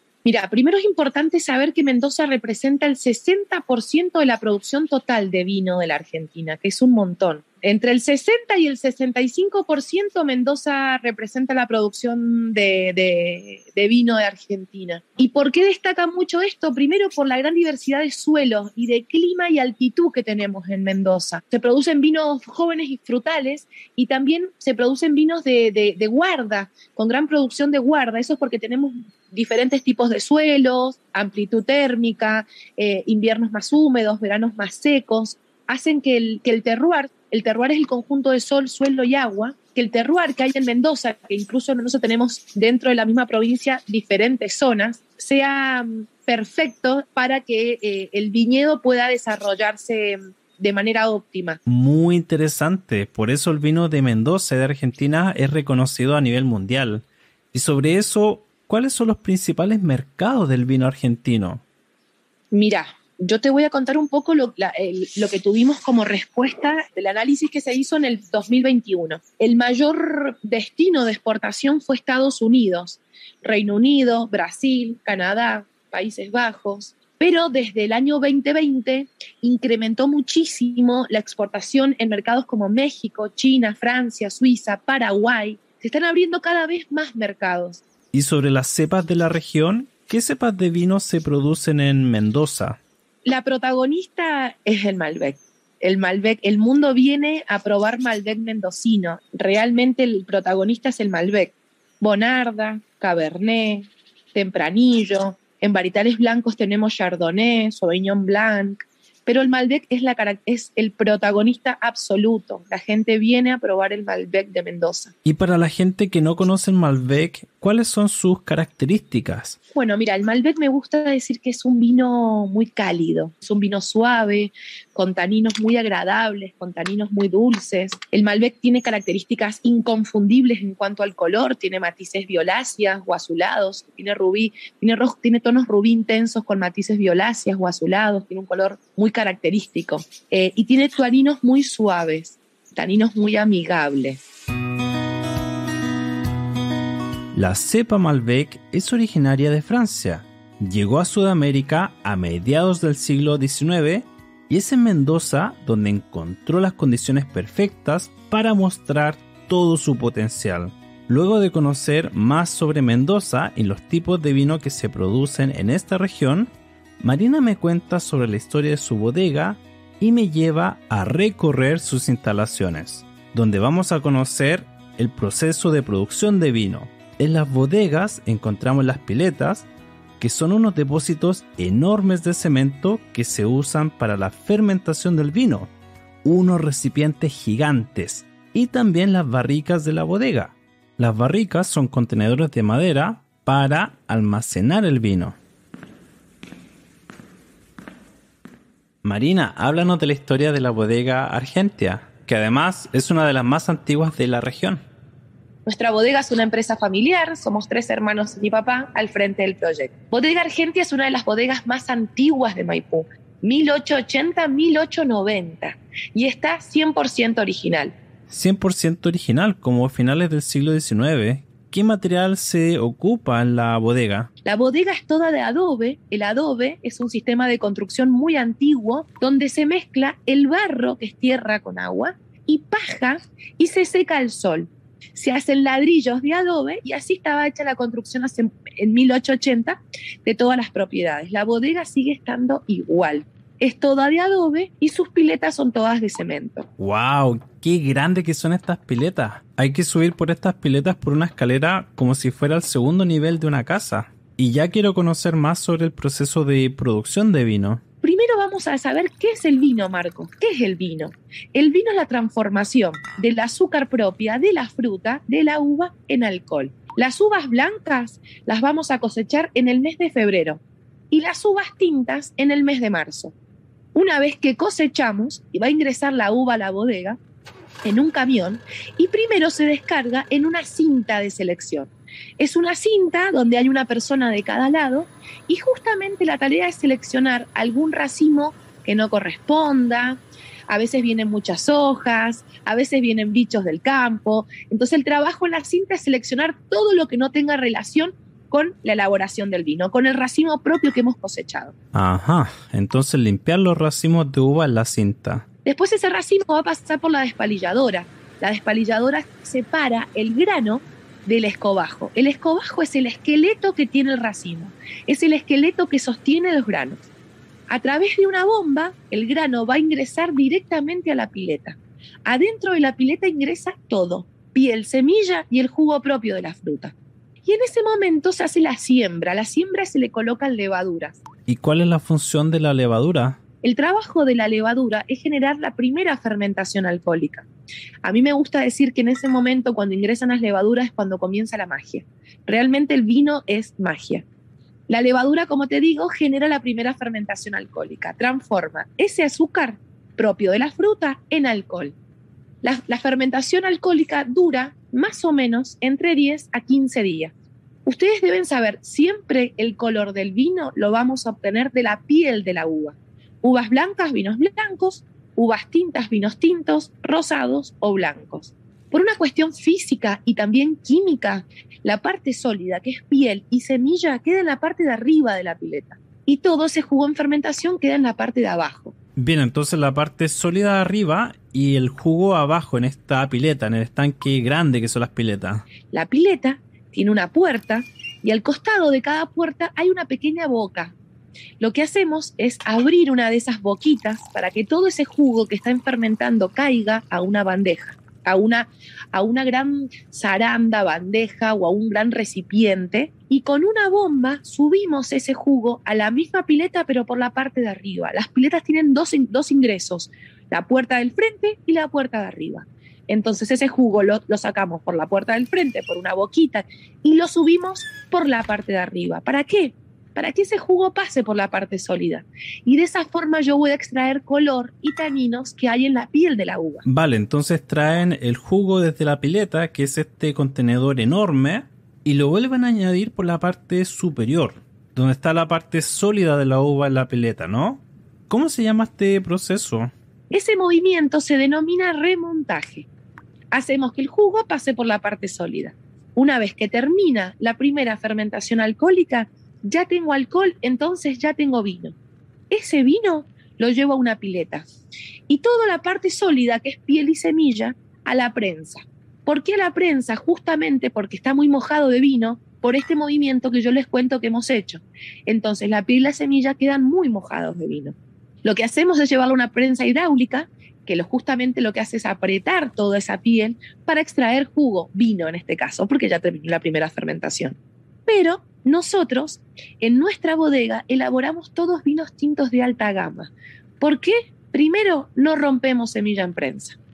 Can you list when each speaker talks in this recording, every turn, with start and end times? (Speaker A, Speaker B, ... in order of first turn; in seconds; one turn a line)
Speaker A: 0.2-51.6
Speaker B: 51.7-61.6
Speaker A: 62.5-87.8
Speaker B: 88.1-92.8
Speaker A: 93.2-115.1
Speaker B: 115.2-119.6
Speaker A: 119.7-144.2
Speaker B: 147.3-179.7
Speaker B: 180.2-185.7
Speaker B: 186.2-195.4
Speaker B: 199.0-204.8
Speaker A: 205.7-217.9
Speaker B: 218.3-224.3
Speaker A: 224.4-246.7
Speaker B: 246.8-257.8
Speaker A: 258.0-273.4
Speaker A: 273.9-277.2
Speaker A: 277.8-301.7
Speaker B: 301.9-305.5
Speaker A: 305.6-317.0
Speaker A: 317.7-326.9
Speaker A: 327.5-331.2
Speaker B: 331.5-333.4
Speaker A: 333.6-337.5
Speaker A: 338.1-344.3
Speaker A: 344.9-352.0
Speaker A: 352.6-357.3
Speaker A: 357.9-378.9
Speaker B: 379.2-385.6
Speaker A: 385.9-391.0
Speaker A: 391.6-426.9
Speaker B: 426.9-439.9
Speaker A: 440.3-442.9
Speaker A: 443.5-452.0
Speaker A: 452.5-454.7
Speaker A: 455.3-486.8